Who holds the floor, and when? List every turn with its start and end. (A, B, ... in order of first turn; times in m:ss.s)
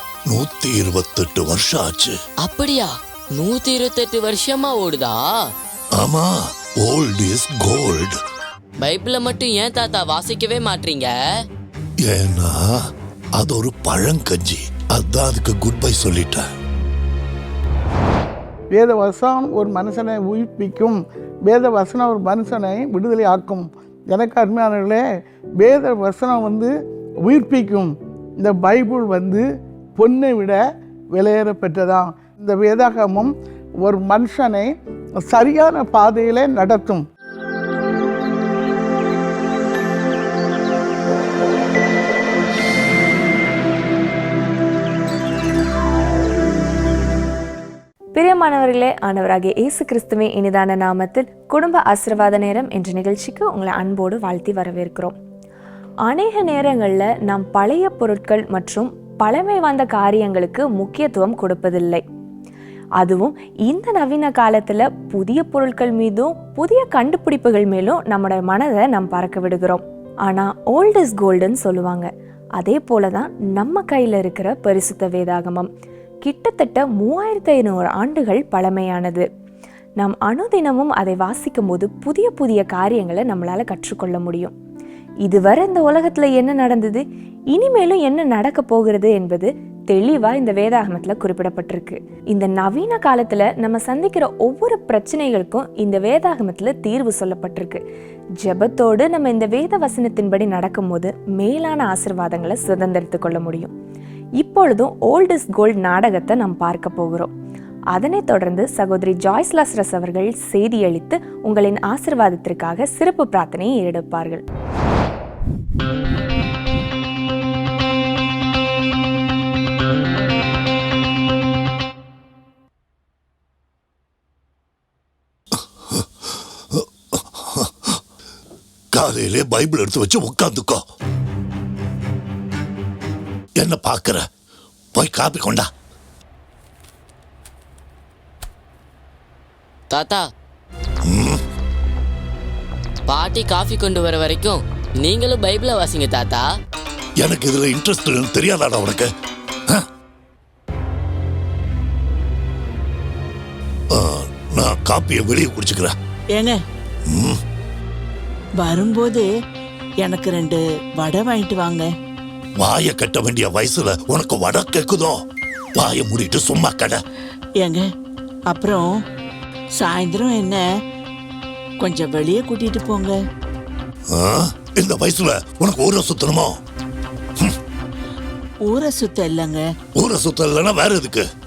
0:00.3-0:02.2 A
0:02.4-0:05.4 B
0:06.0-0:08.1 A
0:08.8-0:11.1 B
0:12.0-0:12.8 A
0:13.4-0:16.5 A
0:18.7-0:25.0 C
0:25.6-0:26.7 C
0:27.2-0:29.4 C
0:30.0-0:30.6 C
0:31.2-0:37.1 C
0:48.2-0:55.2 D
0:56.0-1:02.0 D
1:03.0-1:15.7 D
1:16.2-1:19.3 D
1:20.0-1:24.5 D
1:25.2-1:37.8 D
1:38.4-1:43.7 D
1:44.4-1:47.3 D
1:47.9-1:54.4 D
2:05.6-2:08.0 A
2:08.9-2:10.8 A
2:13.6-2:14.3 A
2:14.9-2:15.7 A
2:19.9-2:20.2 B
2:21.0-2:21.4 A
2:23.1-2:26.4 B
2:27.2-2:29.1 A
2:33.9-2:36.0 A
2:36.4-2:36.6 E
2:37.1-2:37.4 A
2:38.6-2:39.3 E
2:40.0-2:41.9 E
2:42.6-2:45.2 A
2:45.8-2:47.0 A
2:47.6-2:47.9 E
2:48.5-2:49.0 E
2:49.8-2:50.6 E
2:51.8-2:53.2 E
2:54.1-2:56.6 A
2:58.7-2:59.7 E
3:00.0-3:01.2 A